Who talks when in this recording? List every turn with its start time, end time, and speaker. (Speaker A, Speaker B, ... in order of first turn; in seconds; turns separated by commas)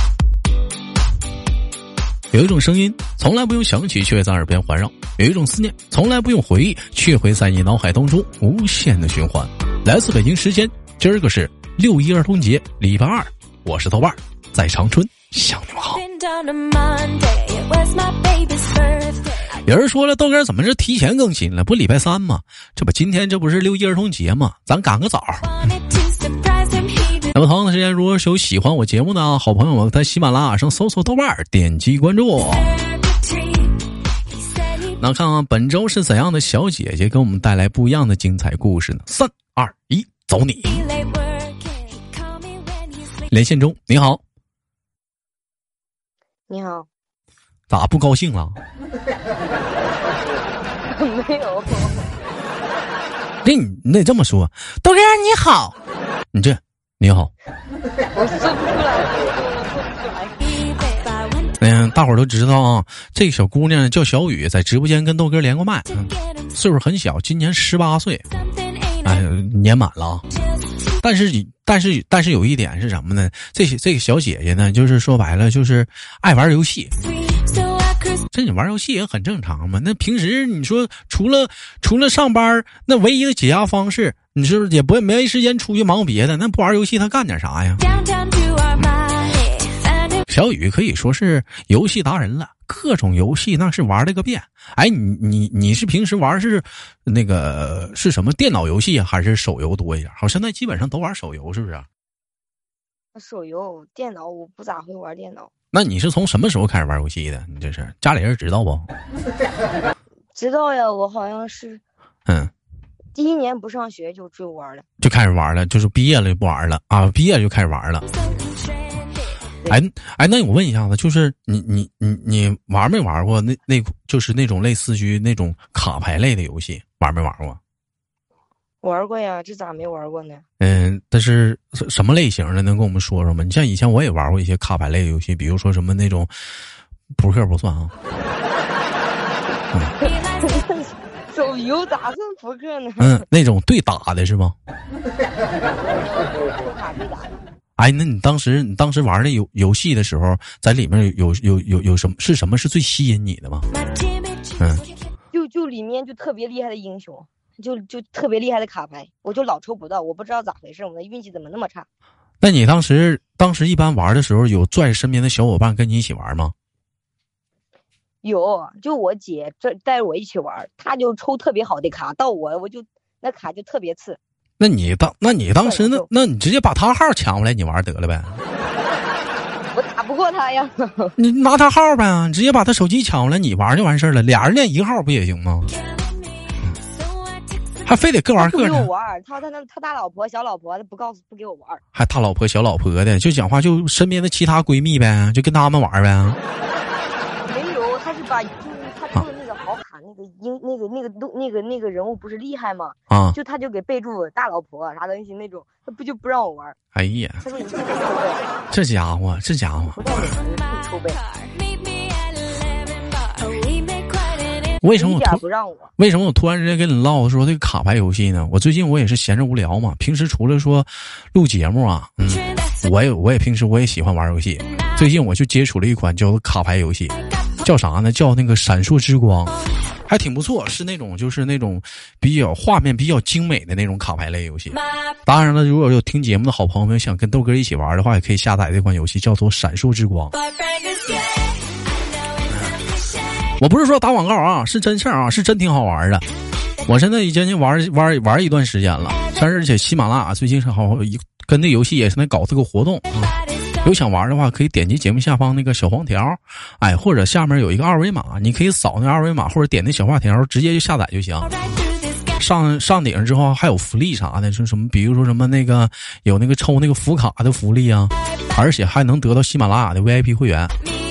Speaker A: 2.3-16.1, Speaker B: 16.2-19.0, Speaker A: 19.5-25.7, Speaker A: 27.3-32.7, Speaker A: 34.9-40.9, Speaker A: 43.3-44.2, Speaker C: 46.5-46.9, Speaker A: 47.7-48.6, Speaker C: 50.9-52.2, Speaker A: 53.4-55.7, Speaker A: 56.3-57.3, Speaker C: 58.1-60.9, Speaker A: 61.6-68.3, Speaker A: 69.0-70.3, Speaker A: 71.0-76.9, Speaker A: 78.3-87.9, Speaker A: 90.3-101.9, Speaker C: 103.1-105.5, Speaker A: 105.7-108.9, Speaker C: 110.3-111.8, Speaker A: 112.3-112.5, Speaker C: 113.1-114.8, Speaker A: 115.0-118.0, Speaker A: 119.7-127.6, Speaker C: 128.8-130.4, Speaker A: 130.6-136.3, Speaker A: 137.2-137.9, Speaker C: 140.0-143.2, Speaker A: 143.0-144.6, Speaker C: 145.8-147.4, Speaker A: 147.8-153.7, Speaker A: 154.6-154.8, Speaker C: 155.3-161.9, Speaker A: 162.4-166.5, Speaker C: 168.2-174.2, Speaker A: 174.6-178.4, Speaker C: 175.6-176.1, Speaker C: 179.7-181.2, Speaker A: 181.2-185.8, Speaker A: 187.8-188.9, Speaker C: 188.4-191.8, Speaker A: 191.9-196.4, Speaker C: 197.5-206.8, Speaker A: 203.1-203.4, Speaker A: 206.9-207.4, Speaker C: 207.4-208.5, Speaker A: 208.7-210.0, Speaker C: 209.9-211.2, Speaker A: 214.8-215.4, Speaker C: 215.0-215.9, Speaker A: 216.0-229.6, Speaker A: 230.1-240.4, Speaker A: 243.6-246.3, Speaker A: 246.9-261.7, Speaker A: 262.4-270.8